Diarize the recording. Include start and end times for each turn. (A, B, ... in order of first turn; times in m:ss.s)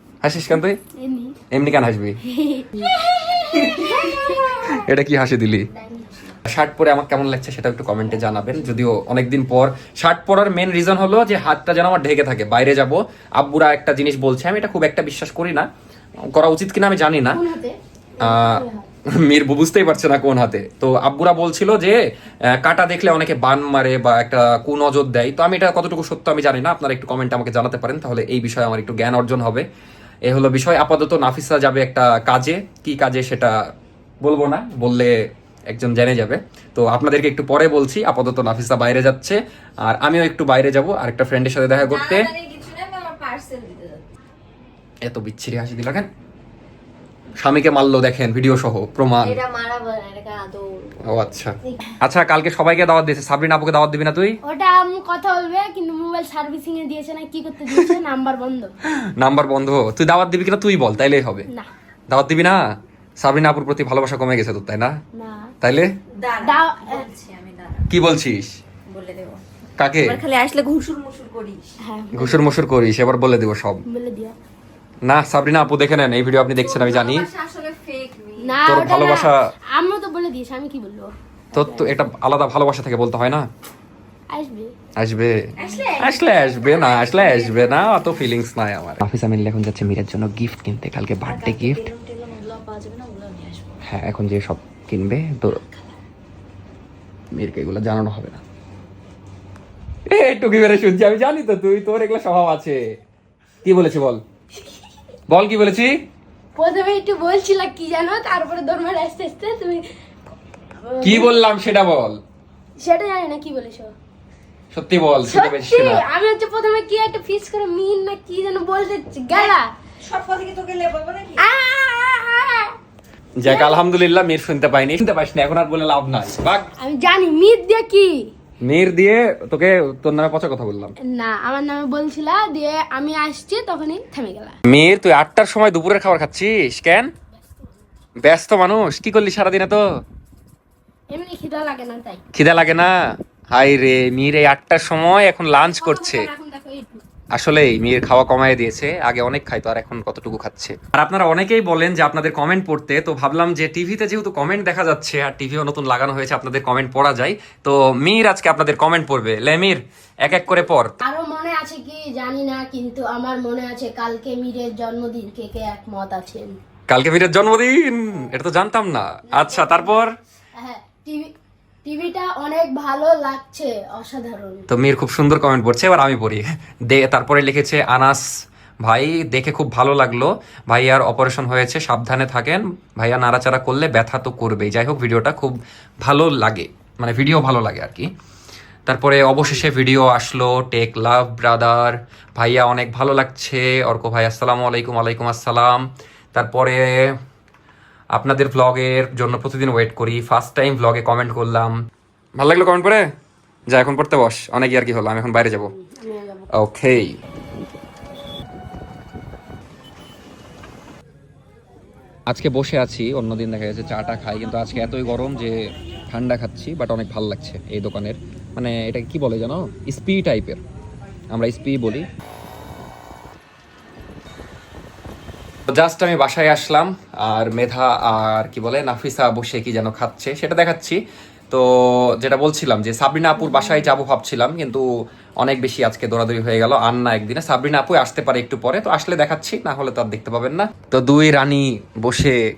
0:00.2-0:00.8 A
0:01.0-0:01.4 B
0:01.5-0:02.2 A
0:02.3-0:04.9 B
0:04.7-0:05.7 A
0:05.7-0:06.3 B
0:06.4-0:15.7 A
0:16.2-0:17.4 A
0:17.3-0:18.8 B
0:18.2-0:29.6 A
0:30.3-0:33.6 A
0:34.2-0:35.2 A
0:35.7-0:42.3 A
0:41.8-0:44.0 C
0:45.0-0:46.1 A
0:47.4-0:49.4 A
0:49.2-0:50.9 C
0:51.0-0:54.4 A
0:54.4-0:58.7 B
0:58.9-1:01.4 A
1:02.1-1:02.6 A
1:03.2-1:04.9 A
1:05.1-1:05.5 B
1:05.6-1:05.9 A
1:06.2-1:07.9 C
1:06.4-1:07.1 B
1:07.9-1:08.6 A
1:08.9-1:09.4 C
1:09.8-1:10.2 A
1:10.0-1:11.7 C
1:11.8-1:12.5 B
1:12.1-1:13.8 A
1:13.9-1:14.3 B
1:15.0-1:17.3 A
1:16.6-1:18.6 C
1:18.4-1:21.9 B
1:18.6-1:19.5 A
1:21.5-1:23.5 A
1:24.3-1:24.7 B
1:25.0-1:31.8 A
1:25.6-1:28.2 C
1:31.2-1:33.8 C
1:33.8-1:35.6 A
1:35.5-1:35.8 C
1:37.3-1:38.4 A
1:40.1-1:42.8 A
1:43.6-1:44.2 A
1:45.3-1:46.0 A
1:46.6-1:49.8 B
1:50.8-1:51.3 B
1:51.0-1:52.2 A
1:52.8-1:53.9 B
1:54.7-1:56.0 A
1:55.3-1:59.7 B
1:59.3-2:01.5 C
2:01.4-2:02.7 B
2:03.4-2:06.7 A
2:03.4-2:03.8 B
2:06.8-2:08.3 B
2:08.6-2:10.9 A
2:11.0-2:14.6 B
2:14.7-2:17.1 A
2:18.2-2:19.8 A
2:21.1-2:22.2 B
2:22.3-2:23.0 A
2:23.5-2:26.3 A
2:25.6-2:27.0 B
2:27.3-2:41.0 A
2:41.0-2:46.6 B
2:46.9-2:50.1 A
2:50.6-2:51.3 B
2:51.8-2:54.7 B
2:54.7-2:58.2 A
2:58.8-3:08.1 A
3:08.9-3:17.2 A
3:18.1-3:21.8 A
3:22.4-3:23.1 A
3:23.7-3:25.7 A
3:25.7-3:26.5 B
3:26.5-3:27.2 A
3:32.3-3:40.6 A
3:41.3-3:42.1 A
3:45.7-3:54.8 A
3:53.4-3:53.9 C
3:55.4-4:02.4 A